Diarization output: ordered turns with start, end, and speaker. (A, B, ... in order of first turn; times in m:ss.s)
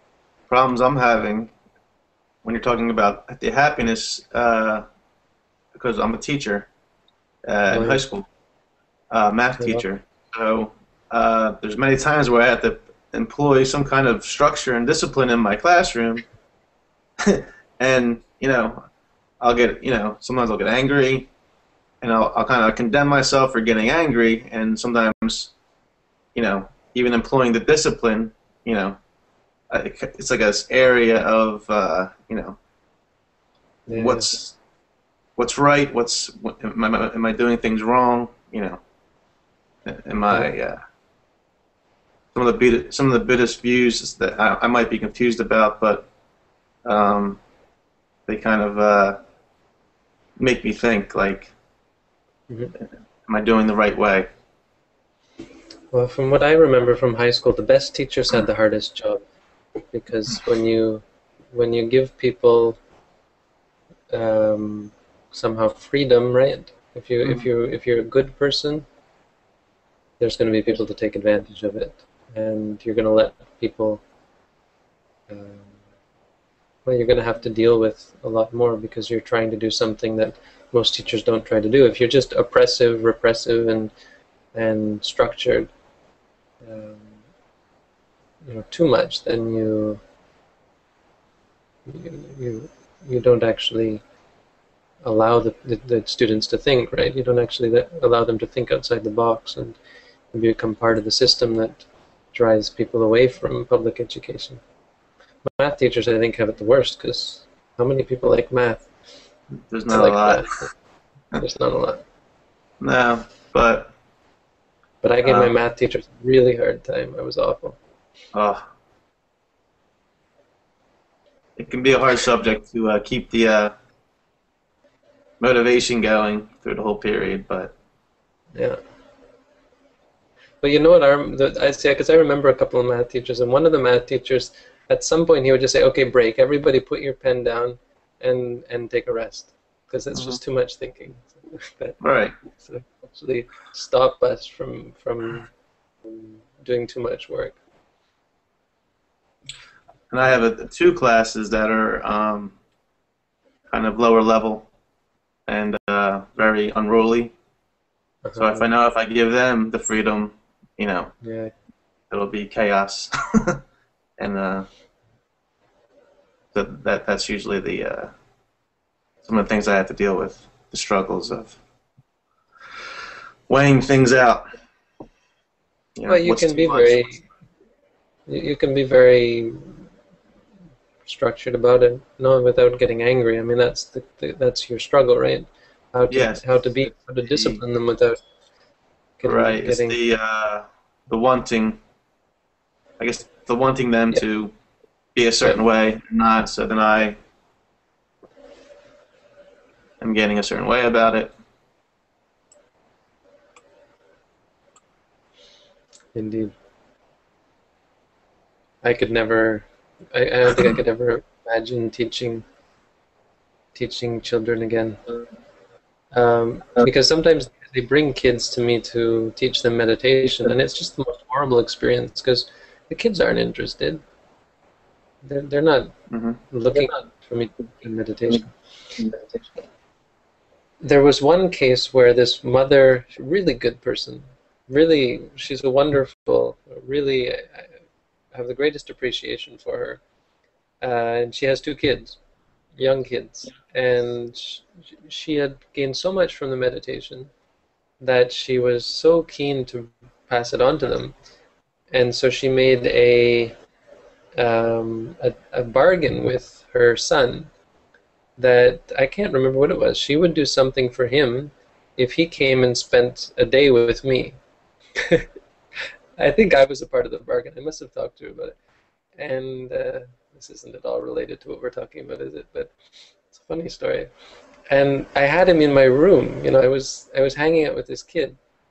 0:00.5-0:01.5 A
0:02.4-0:04.8 A
0:05.7-0:06.7 A
0:07.5-0:08.3 A
0:07.7-0:08.0 B
0:09.1-0:16.2 A
0:09.6-0:09.8 B
0:17.2-0:18.8 A
0:19.4-0:21.3 A
0:22.0-0:25.5 A
0:26.4-0:29.0 A
0:29.7-0:32.6 A
0:33.9-0:34.3 B
0:33.9-0:34.6 A
0:35.4-0:38.8 A
0:39.9-0:40.8 A
0:42.3-0:46.1 A
0:46.8-0:47.4 A
0:48.3-0:49.2 A
0:50.4-0:51.5 A
0:52.5-0:52.8 B
0:53.3-0:54.3 A
0:55.9-0:59.2 B
0:59.9-1:02.8 B
1:04.1-1:08.9 B
1:10.2-1:14.0 B
1:15.3-1:15.8 B
1:16.8-1:23.9 B
1:24.5-1:25.7 B
1:26.6-1:27.2 B
1:28.4-1:30.0 B
1:31.9-1:34.0 B
1:35.0-1:39.8 B
1:40.3-1:44.6 B
1:45.4-1:48.9 B
1:49.7-1:50.4 A
1:49.9-1:50.7 B
1:51.4-1:52.0 B
1:52.8-1:53.9 A
1:55.0-1:57.8 B
1:55.2-1:55.5 A
1:58.3-1:58.6 A
2:01.6-2:03.7 A
2:05.4-2:07.7 A
2:10.6-2:22.0 B
2:20.1-2:20.4 A
2:22.0-2:22.4 A
2:22.6-2:25.5 B
2:26.0-2:27.6 B
2:30.1-2:32.6 A
2:33.7-2:34.7 A
2:35.5-2:37.3 A
2:38.2-2:38.7 B
2:38.4-2:41.1 A
2:41.2-2:41.5 B
2:42.1-2:43.6 A
2:44.2-2:44.7 A
2:46.5-2:48.1 A
2:49.2-2:51.6 A
2:53.5-2:54.4 A
2:56.0-2:57.2 A
2:56.1-2:57.2 B
2:58.3-2:59.8 B
3:01.0-3:08.2 B
3:06.1-3:07.6 A
3:09.2-3:10.0 B
3:09.2-3:11.8 A
3:13.0-3:14.5 A
3:15.2-3:17.2 A
3:20.0-3:21.3 A
3:26.2-3:26.5 B
3:28.8-3:32.4 B
3:33.8-3:35.0 B
3:36.1-3:44.0 B
3:45.2-3:45.9 B
3:46.1-3:46.4 A
3:46.5-3:49.1 B
3:50.8-3:57.7 B
3:58.3-4:00.0 B
4:00.8-4:02.2 B
4:02.8-4:07.3 B
4:08.0-4:11.2 B
4:11.9-4:13.5 B
4:14.4-4:17.5 B
4:18.4-4:24.4 B
4:25.0-4:25.3 B
4:26.2-4:28.6 B
4:29.2-4:32.7 B
4:33.3-4:34.1 B
4:34.7-4:38.4 B